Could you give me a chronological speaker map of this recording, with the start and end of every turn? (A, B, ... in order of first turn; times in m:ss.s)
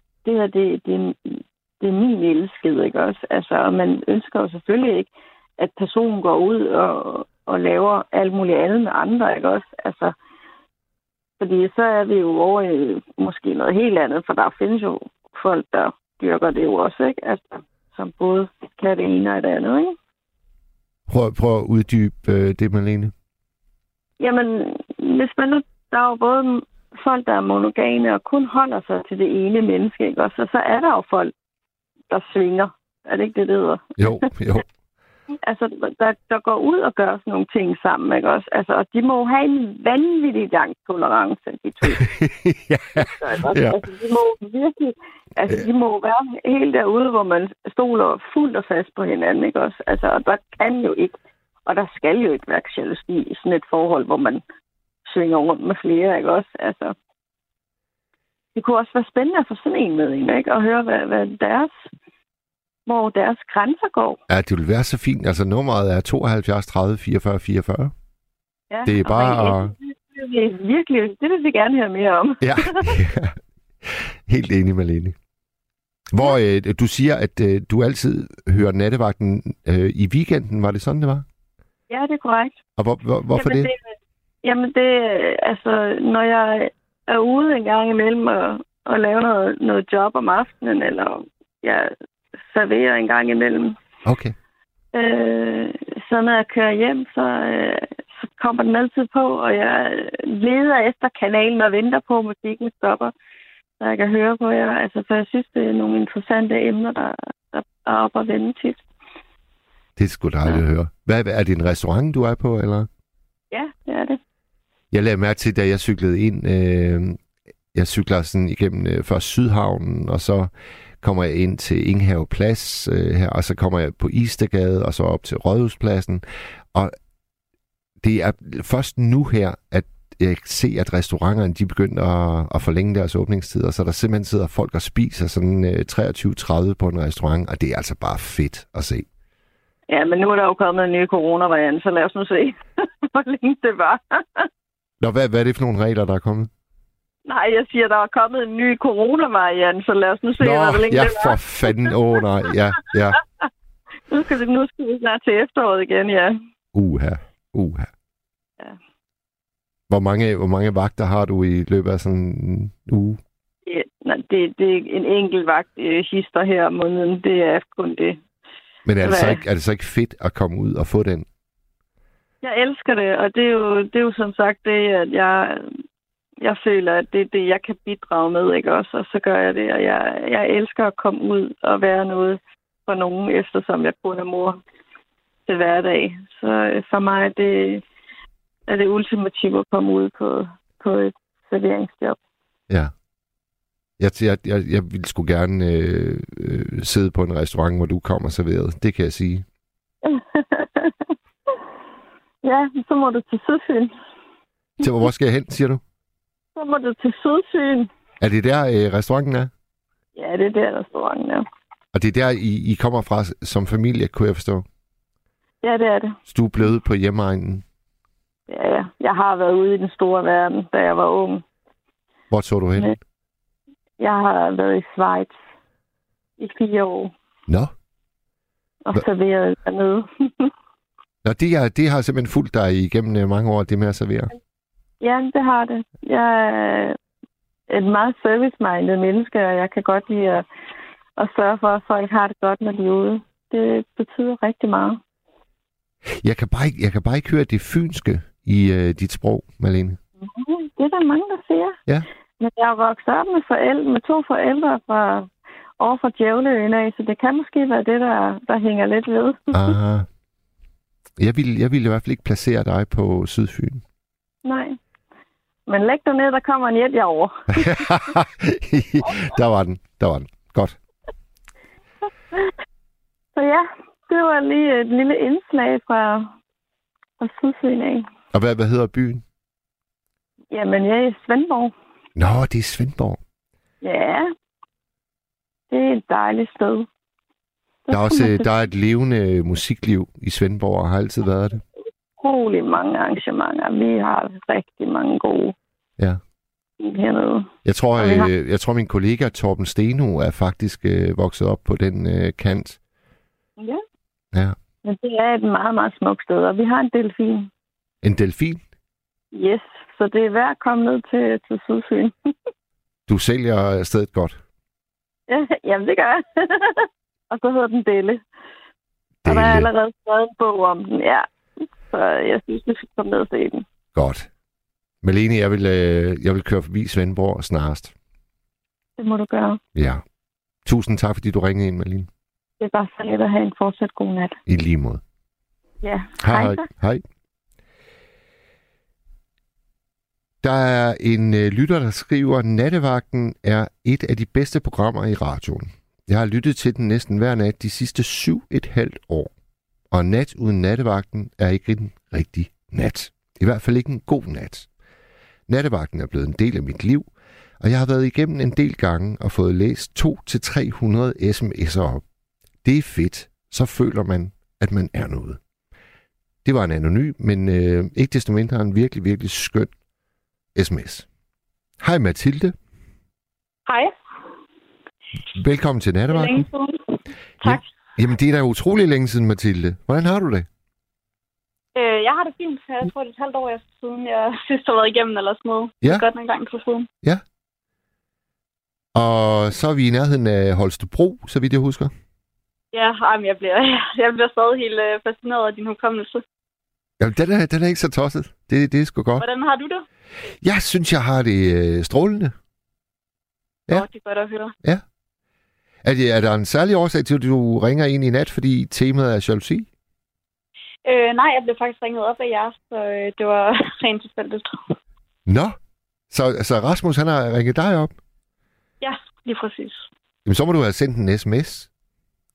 0:00.2-0:10.2 A
0:11.4-0:20.0 A
0:21.1-0:23.1 B
0:24.2-0:31.3 A
0:32.1-0:34.3 A
0:34.0-0:34.6 B
0:35.4-0:42.1 A
0:41.9-0:43.8 B
0:43.0-0:54.4 A
0:55.0-0:57.0 A
0:58.6-1:01.9 A
1:02.9-1:04.2 A
1:04.3-1:07.9 B
1:08.7-1:13.0 A
1:08.8-1:09.7 B
1:12.4-1:15.2 B
1:16.1-1:21.3 B
1:21.9-1:22.6 A
1:22.8-1:23.7 B
1:23.4-1:23.9 A
1:24.4-1:31.9 A
1:32.5-1:33.8 A
1:34.0-1:34.4 B
1:34.9-1:43.1 A
1:43.8-1:48.8 A
1:50.0-1:52.9 B
1:53.5-1:54.2 A
1:54.9-1:57.2 B
1:57.7-2:00.5 B
2:01.0-2:07.0 B
2:08.0-2:19.1 B
2:19.9-2:24.5 A
2:25.0-2:26.5 B
2:27.3-2:31.9 A
2:30.4-2:33.2 B
2:34.1-2:36.4 A
2:36.7-2:37.9 B
2:39.9-2:43.2 B
2:43.7-2:48.2 A
2:48.8-2:51.3 B
2:49.0-2:49.4 A
2:52.4-2:55.7 A
2:56.4-3:04.6 A
3:05.5-3:07.8 A
3:08.7-3:12.2 A
3:14.0-3:19.5 B
3:20.0-3:21.1 A
3:22.4-3:23.9 A
3:24.8-3:25.8 B
3:26.6-3:27.9 A
3:28.2-3:29.5 B
3:30.2-3:31.4 A
3:31.9-3:34.6 B
3:35.6-3:36.2 A
3:36.3-3:37.6 B
3:38.5-3:41.4 A
3:42.3-3:42.9 B
3:44.0-3:45.4 A
3:46.4-3:47.1 A
3:47.5-3:47.7 B
3:48.8-3:50.5 A
3:51.2-3:54.3 B
3:55.0-3:57.0 A
3:57.7-4:00.4 A
4:01.2-4:05.0 A
4:06.2-4:10.0 B
4:10.2-4:11.8 A
4:12.4-4:19.7 A
4:19.5-4:20.1 B
4:21.2-4:23.8 B
4:24.4-4:24.8 A
4:25.7-4:27.9 A
4:27.5-4:30.8 B
4:33.4-4:36.4 A
4:37.2-4:38.1 A
4:38.3-4:39.2 B
4:40.5-4:41.7 A
4:42.2-4:43.2 B
4:43.8-4:44.3 A
4:45.7-4:46.9 A
4:47.9-4:48.5 A
4:47.9-4:51.6 B
4:52.2-4:55.6 A
4:56.8-4:58.3 A
4:57.6-5:02.8 B
5:04.8-5:07.5 A
5:08.0-5:08.6 B
5:09.3-5:12.2 A
5:13.1-5:14.4 B
5:15.3-5:18.2 A
5:19.2-5:19.7 B
5:19.3-5:21.3 A
5:21.9-5:23.7 A
5:24.0-5:24.3 B
5:25.0-5:27.9 B
5:29.0-5:29.6 A
5:29.8-5:30.0 B
5:30.6-5:32.1 B
5:32.6-5:34.4 A
5:34.5-5:35.0 B
5:35.8-5:36.6 A
5:36.2-5:37.0 B
5:40.4-5:49.3 B
5:49.9-5:54.7 B
5:55.5-5:57.1 B
5:57.6-6:02.0 B
6:02.6-6:05.4 B
6:06.4-6:09.7 B
6:10.6-6:11.1 B
6:11.8-6:12.6 B
6:13.7-6:13.9 C
6:15.3-6:16.5 B
6:16.1-6:17.7 C
6:17.4-6:20.5 B
6:21.8-6:26.9 C
6:29.0-6:31.9 B
6:32.7-6:36.2 C
6:37.0-6:39.3 B
6:39.2-6:39.8 C
6:40.4-6:42.4 B
6:43.7-6:44.5 C
6:45.8-6:49.7 B
6:50.8-6:54.8 C
6:55.3-6:55.6 B
6:56.1-6:57.9 B
6:58.8-6:59.9 C
7:00.2-7:01.7 B